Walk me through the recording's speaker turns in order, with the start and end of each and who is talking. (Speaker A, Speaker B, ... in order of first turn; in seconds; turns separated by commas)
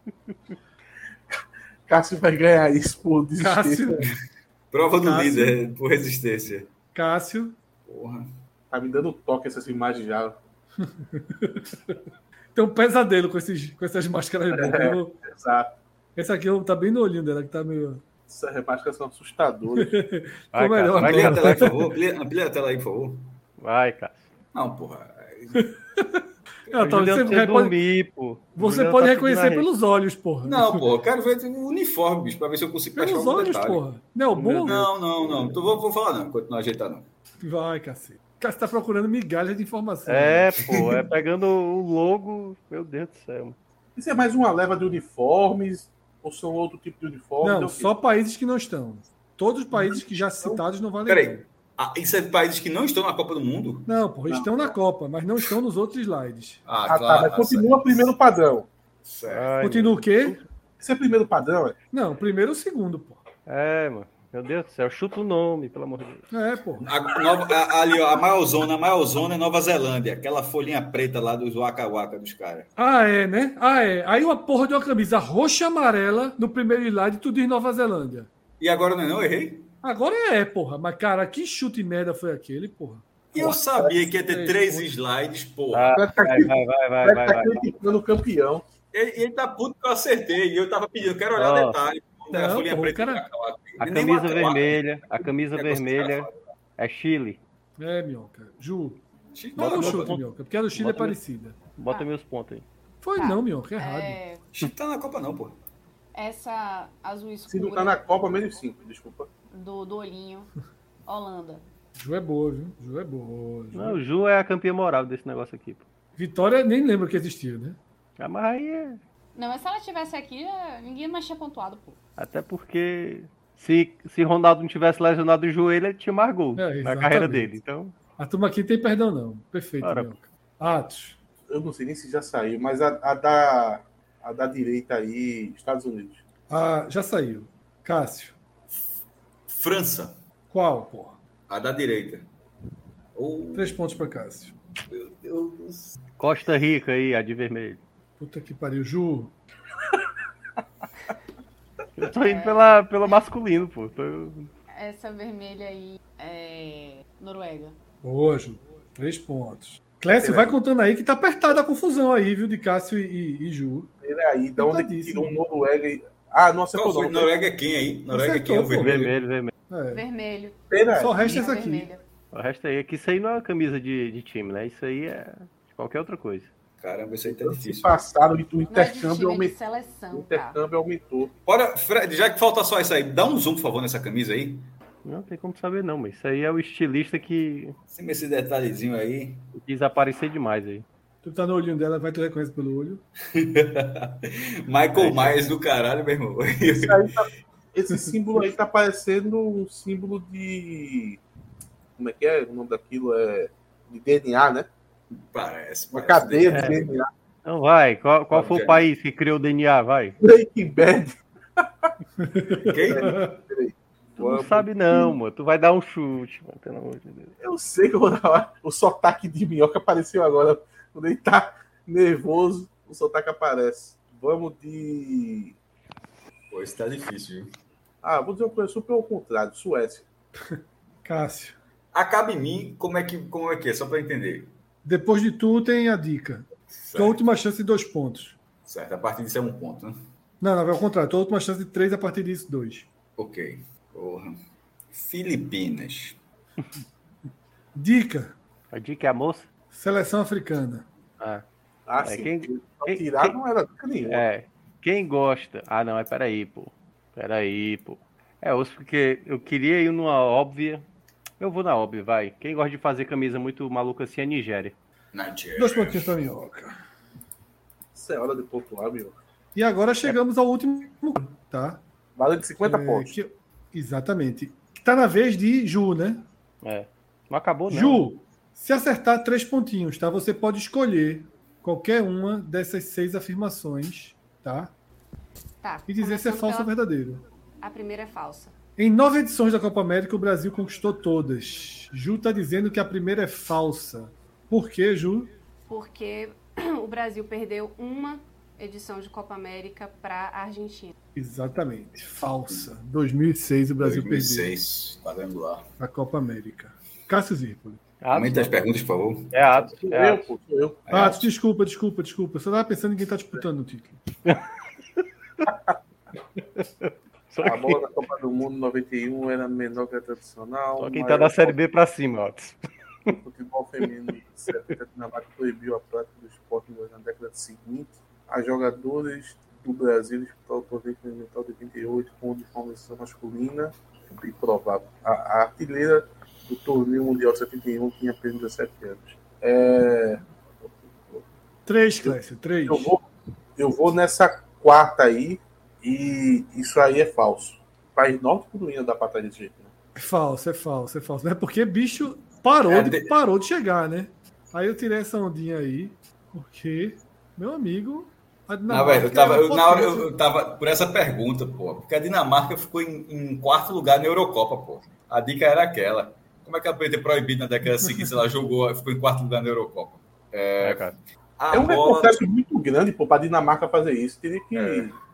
Speaker A: 1.3-3.9, Speaker B: 3.4-4.1, Speaker C: 4.7-6.7, Speaker B: 5.0-5.6, Speaker B: 6.9-7.6, Speaker C: 7.9-8.3, Speaker A: 8.7-10.4, Speaker B: 10.8-12.0, Speaker B: 12.5-15.2, Speaker A: 14.5-15.7, Speaker B: 16.2-18.1, Speaker A: 18.3-19.9, Speaker B: 19.8-21.9, Speaker D: 20.5-21.8, Speaker C: 20.9-23.3, Speaker D: 23.6-24.3, Speaker C: 24.5-25.7, Speaker B: 25.6-27.8, Speaker D: 26.8-29.7, Speaker B: 28.6-30.9, Speaker C: 30.4-33.8, Speaker B: 33.0-34.9, Speaker C: 34.4-37.1, Speaker D: 34.5-34.9, Speaker B: 37.4-40.9, Speaker D: 40.1-43.6, Speaker A: 44.0-47.9, Speaker B: 47.4-51.5, Speaker A: 49.8-50.6, Speaker C: 51.1-53.9, Speaker B: 53.9-56.6, Speaker A: 54.3-54.7, Speaker C: 56.7-58.0, Speaker A: 56.9-58.7, Speaker C: 59.0-59.5, Speaker D: 59.3-60.4, Speaker B: 59.6-60.4, Speaker A: 60.8-61.8, Speaker B: 61.9-63.2, Speaker D: 63.5-66.2, Speaker B: 66.3-66.9, Speaker C: 66.8-72.7, Speaker B: 72.8-78.3, Speaker C: 78.6-79.7, Speaker B: 79.8-83.4, Speaker C: 83.3-86.0, Speaker B: 84.0-84.9, Speaker D: 85.7-87.6, Speaker A: 86.0-88.6, Speaker C: 88.9-96.4, Speaker D: 91.3-91.8, Speaker B: 92.3-93.2, Speaker D: 93.8-97.4, Speaker B: 97.8-99.0, Speaker C: 99.3-100.2, Speaker B: 99.6-101.6, Speaker D: 99.6-100.2, Speaker D: 100.8-101.2, Speaker D: 101.8-102.7, Speaker B: 103.0-104.2, Speaker E: 103.2-104.4, Speaker C: 104.5-105.5, Speaker E: 106.1-108.1, Speaker A: 107.5-109.3, Speaker E: 109.5-110.5, Speaker E: 111.1-111.6, Speaker B: 112.0-114.0, Speaker D: 113.7-115.8, Speaker B: 116.2-117.8, Speaker D: 118.2-119.0, Speaker E: 119.3-122.0, Speaker D: 122.2-128.0, Speaker B: 126.6-127.5, Speaker B: 128.2-131.2, Speaker D: 129.8-130.1, Speaker A: 131.5-136.2, Speaker B: 136.5-138.4, Speaker C: 139.5-140.2, Speaker B: 140.5-141.2, Speaker C: 141.5-142.2, Speaker C: 143.2-143.9, Speaker B: 143.5-144.6, Speaker C: 144.9-146.0, Speaker D: 146.2-147.8, Speaker B: 148.2-149.3, Speaker D: 152.0-154.5, Speaker E: 152.2-152.8, Speaker E: 154.7-157.8, Speaker B: 158.0-163.9, Speaker A: 160.2-160.6, Speaker A: 164.0-167.3, Speaker B: 164.6-165.3, Speaker C: 166.7-169.1, Speaker B: 168.1-168.9, Speaker D: 168.8-169.5, Speaker B: 169.7-170.0, Speaker E: 169.9-172.0, Speaker A: 170.7-171.2, Speaker B: 171.0-171.9, Speaker D: 172.3-176.5, Speaker C: 176.8-178.0, Speaker A: 177.3-179.6, Speaker E: 178.7-180.6, Speaker A: 180.1-181.3, Speaker C: 181.5-184.7, Speaker D: 185.1-187.8, Speaker C: 187.9-189.4, Speaker D: 189.6-190.8, Speaker B: 191.2-193.0, Speaker C: 193.3-197.1, Speaker D: 194.9-195.4, Speaker A: 196.7-201.2, Speaker A: 202.0-204.7, Speaker C: 205.1-206.9, Speaker A: 205.9-207.1, Speaker D: 206.5-206.8, Speaker D: 207.4-210.2, Speaker C: 208.3-208.8, Speaker A: 210.2-211.9, Speaker B: 212.2-213.3, Speaker C: 212.7-213.2, Speaker A: 212.9-215.1, Speaker D: 214.2-217.3, Speaker A: 217.4-225.6, Speaker C: 226.5-227.5, Speaker A: 228.0-230.1, Speaker B: 230.5-231.6, Speaker C: 231.9-234.5, Speaker B: 234.8-238.4, Speaker C: 236.7-237.2, Speaker C: 238.7-240.0, Speaker B: 240.4-242.9, Speaker C: 243.2-244.4, Speaker C: 244.9-246.2, Speaker B: 247.8-248.4, Speaker D: 248.7-249.5, Speaker B: 249.7-250.9, Speaker D: 251.2-251.4, Speaker A: 251.9-254.2, Speaker D: 252.0-253.3, Speaker D: 254.1-260.9, Speaker D: 261.4-264.8, Speaker C: 265.1-266.1, Speaker B: 265.6-266.8, Speaker A: 267.9-269.2, Speaker B: 269.6-271.8, Speaker A: 272.2-273.1, Speaker B: 272.6-276.2, Speaker D: 276.6-278.0, Speaker B: 277.7-284.7, Speaker E: 285.6-286.7, Speaker B: 285.9-287.2, Speaker E: 287.6-288.5, Speaker B: 288.8-295.3, Speaker E: 295.7-300.9, Speaker B: 301.1-304.5, Speaker C: 303.8-305.7, Speaker B: 305.8-307.8, Speaker D: 308.0-308.6, Speaker C: 308.1-309.4, Speaker D: 309.3-310.3, Speaker A: 309.7-310.9, Speaker C: 310.9-311.3, Speaker B: 310.9-314.0, Speaker D: 316.6-317.9, Speaker A: 317.4-321.6, Speaker D: 320.8-323.2, Speaker A: 323.2-341.3, Speaker B: 341.7-342.9, Speaker A: 342.0-343.1, Speaker A: 343.6-349.7, Speaker B: 350.0-360.2, Speaker C: 352.7-353.1, Speaker C: 358.7-372.2, Speaker D: 370.6-371.0, Speaker A: 371.5-374.9